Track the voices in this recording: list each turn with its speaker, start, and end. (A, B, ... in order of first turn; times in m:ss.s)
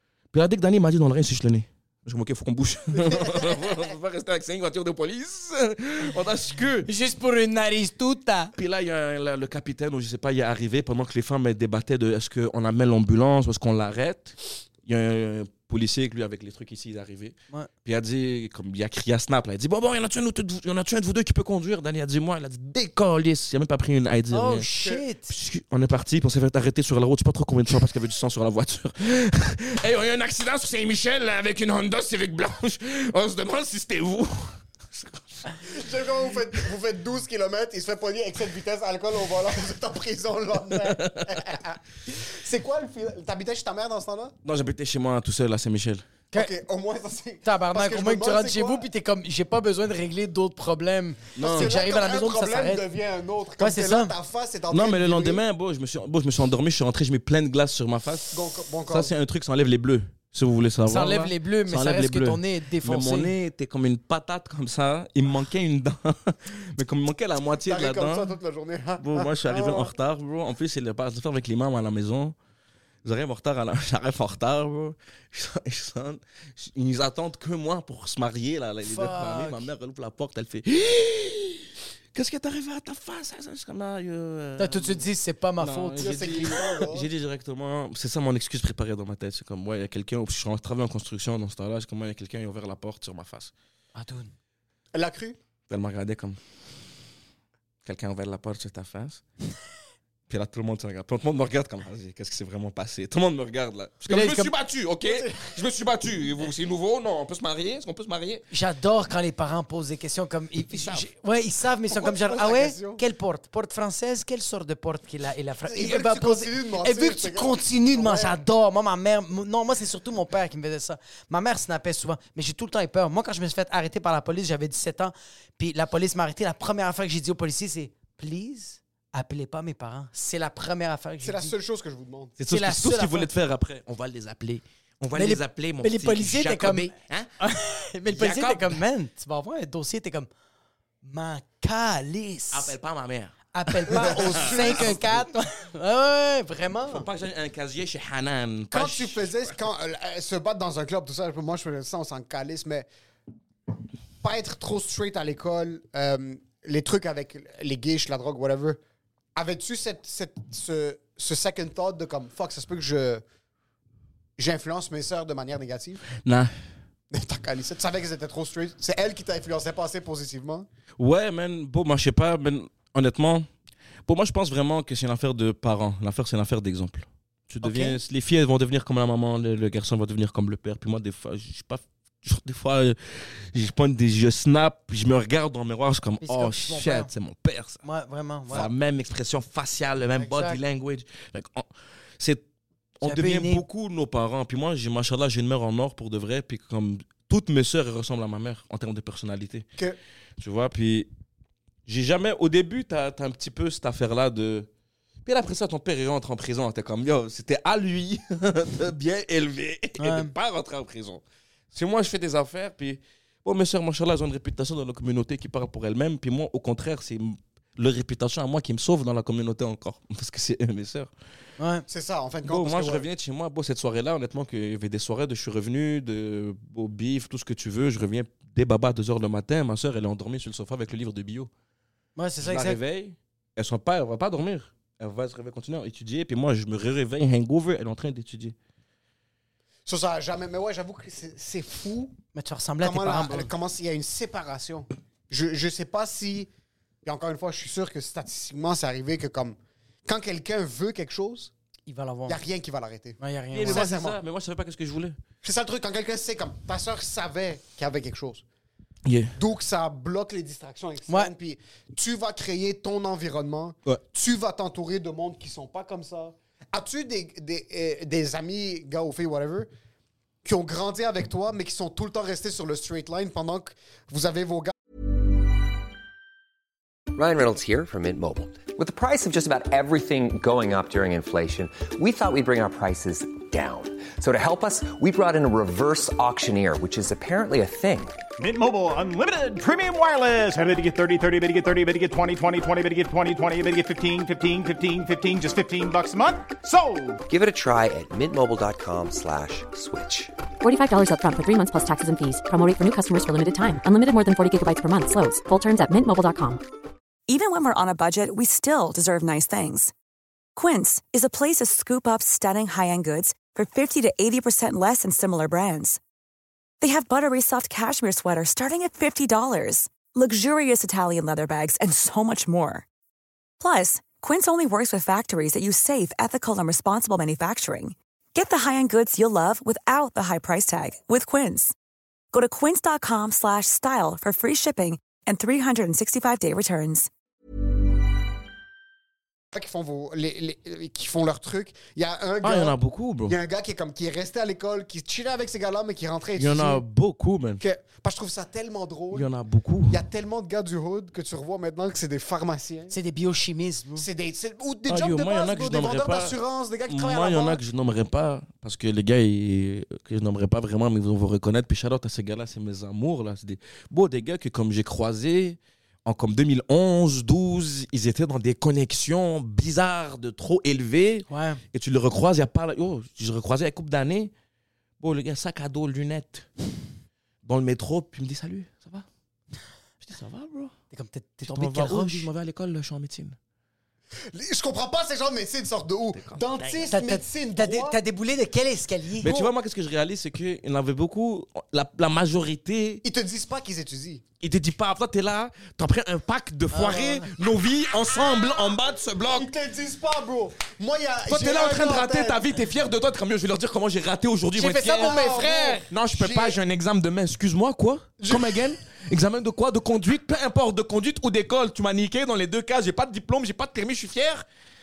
0:00.3-0:06.9 A
0:02.9-0:03.9 B
0:06.8-0:08.5 C
0:08.5-0:24.7 A
0:24.3-0:25.3 C
0:25.3-0:35.4 A
0:35.7-0:44.3 B
0:40.8-0:41.4 A
0:44.4-0:46.0 A
0:46.3-0:48.8 B
0:47.4-0:52.8 C
0:51.4-0:51.7 A
0:51.4-0:55.4 B
0:53.6-0:54.1 C
0:54.7-0:58.4 A
0:58.3-0:59.1 B
0:58.9-1:08.3 A
1:00.9-1:03.3 C
1:07.6-1:09.9 B
1:09.0-1:12.3 A
1:13.0-1:25.0 A
1:18.8-1:19.6 C
1:24.6-1:26.4 C
1:25.6-1:33.5 A
1:26.0-1:27.1 B
1:33.9-1:34.3 C
1:34.9-1:35.4 B
1:35.7-1:36.4 A
1:37.8-1:39.2 A
1:40.3-1:48.4 A
1:44.1-1:44.5 C
1:45.0-1:45.4 B
1:48.5-2:11.5 C
1:50.8-1:51.0 A
1:51.9-1:53.0 B
1:55.7-1:58.4 B
2:11.2-2:12.3 B
2:12.4-2:17.3 A
2:12.5-2:13.3 C
2:15.1-2:20.3 C
2:18.1-2:18.8 A
2:21.0-2:22.7 C
2:22.5-2:25.2 A
2:23.5-2:27.0 C
2:23.9-2:25.0 B
2:26.9-2:29.5 A
2:28.7-2:32.9 B
2:34.2-2:38.8 B
2:39.3-2:43.2 B
2:44.4-2:46.0 B
2:46.2-2:46.5 A
2:47.1-2:50.7 B
2:51.0-2:53.5 A
2:54.0-3:07.8 A
2:57.6-2:58.0 C
3:06.2-3:07.1 C
3:07.8-3:08.7 C
3:08.5-3:12.4 A
3:10.2-3:10.6 C
3:13.0-3:19.6 A
3:13.0-3:13.6 C
3:20.4-3:21.1 A
3:21.9-3:24.7 A
3:25.2-3:31.2 A
3:30.0-3:30.3 C
3:31.7-3:41.1 A
3:41.6-3:41.8 C
3:41.9-3:43.1 B
3:42.4-3:51.5 A
3:52.2-3:52.8 C
3:52.4-3:58.5 A
3:59.8-4:02.1 B
4:02.3-4:03.5 C
4:02.8-4:06.5 B
4:07.0-4:11.5 B
4:11.9-4:12.4 C
4:12.3-4:14.2 B
4:13.2-4:13.9 C
4:13.5-4:15.2 A
4:15.4-4:18.4 B
4:19.0-4:19.4 A
4:19.4-4:29.7 B
4:30.4-4:34.7 B
4:37.1-4:48.2 D
4:48.4-4:57.2 E
4:57.2-5:00.3 D
5:00.6-5:06.6 F
5:07.3-5:09.9 G
5:10.6-5:16.0 G
5:16.8-5:22.8 G
5:23.6-5:31.7 G
5:32.3-5:37.1 G
5:39.5-5:46.8 B
5:42.4-5:43.4 A
5:46.4-5:47.6 A
5:47.6-5:49.3 B
5:49.1-5:50.0 A
5:49.9-5:52.9 B
5:52.9-5:54.0 C
5:54.0-5:57.6 B
5:54.9-5:56.4 A
5:56.9-6:14.3 A
6:11.3-6:11.6 C
6:15.0-6:16.5 A
6:17.4-6:19.0 A
6:20.0-6:20.7 A
6:20.9-6:22.3 C
6:21.5-6:23.4 A
6:24.3-6:28.0 B
6:26.1-6:26.9 A
6:26.9-6:29.4 C
6:29.2-6:33.0 A
6:33.0-6:34.2 B
6:34.4-6:39.5 A
6:36.7-6:37.3 C
6:39.3-6:42.4 B
6:41.3-6:45.2 A
6:44.6-6:45.8 C
6:44.9-6:46.6 B
6:45.9-6:54.4 A
6:48.2-6:48.6 B